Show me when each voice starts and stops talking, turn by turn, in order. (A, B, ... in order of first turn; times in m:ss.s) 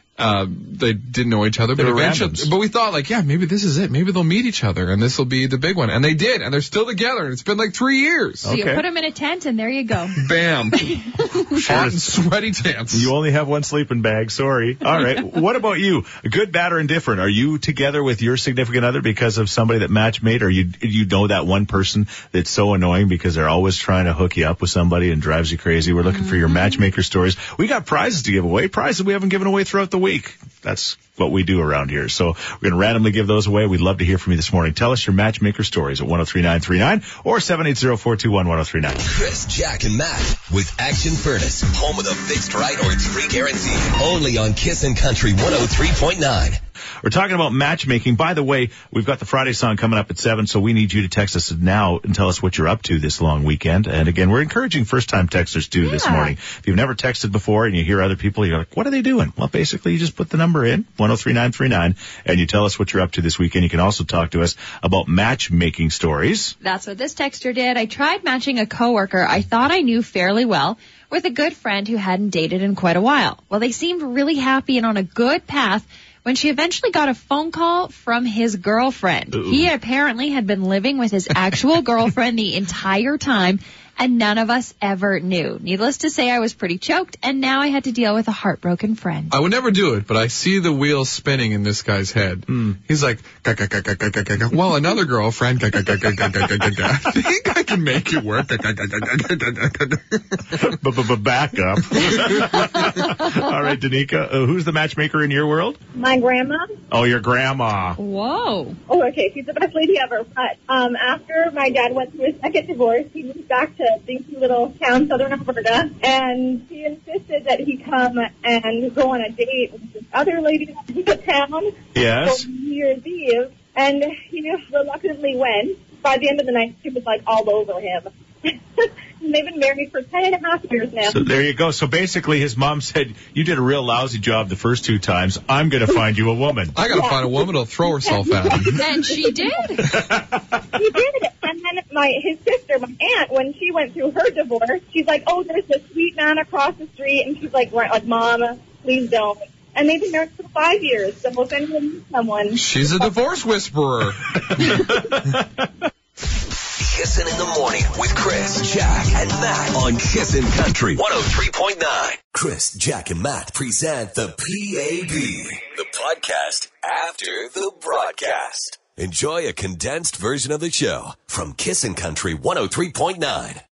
0:00.2-0:08.5 A
0:01.8-0:02.5 B
0:08.4-0:08.8 B
0:08.4-0:10.2 C
0:10.2-0:13.1 A
0:10.9-0:11.2 C
0:11.7-0:12.2 B
0:12.9-0:39.0 B
0:26.1-0:26.8 C
0:39.0-0:46.6 D
0:47.0-1:06.6 B
0:55.8-0:56.3 C
1:06.6-1:29.4 C
1:19.3-1:19.7 B
1:29.3-1:40.6 A
1:40.5-1:45.8 B
1:42.0-1:42.5 A
1:45.9-1:46.7 E
1:46.9-1:48.0 B
1:48.0-1:48.8 C
1:48.9-2:11.2 E
2:01.9-2:02.4 B
2:11.1-2:16.8 B
2:16.7-2:18.8 A
2:16.8-2:19.8 E
2:18.8-2:19.9 C
2:19.9-2:20.4 B
2:20.7-2:33.1 E
2:32.5-2:34.9 A
2:34.6-2:35.4 B
2:36.8-2:53.6 D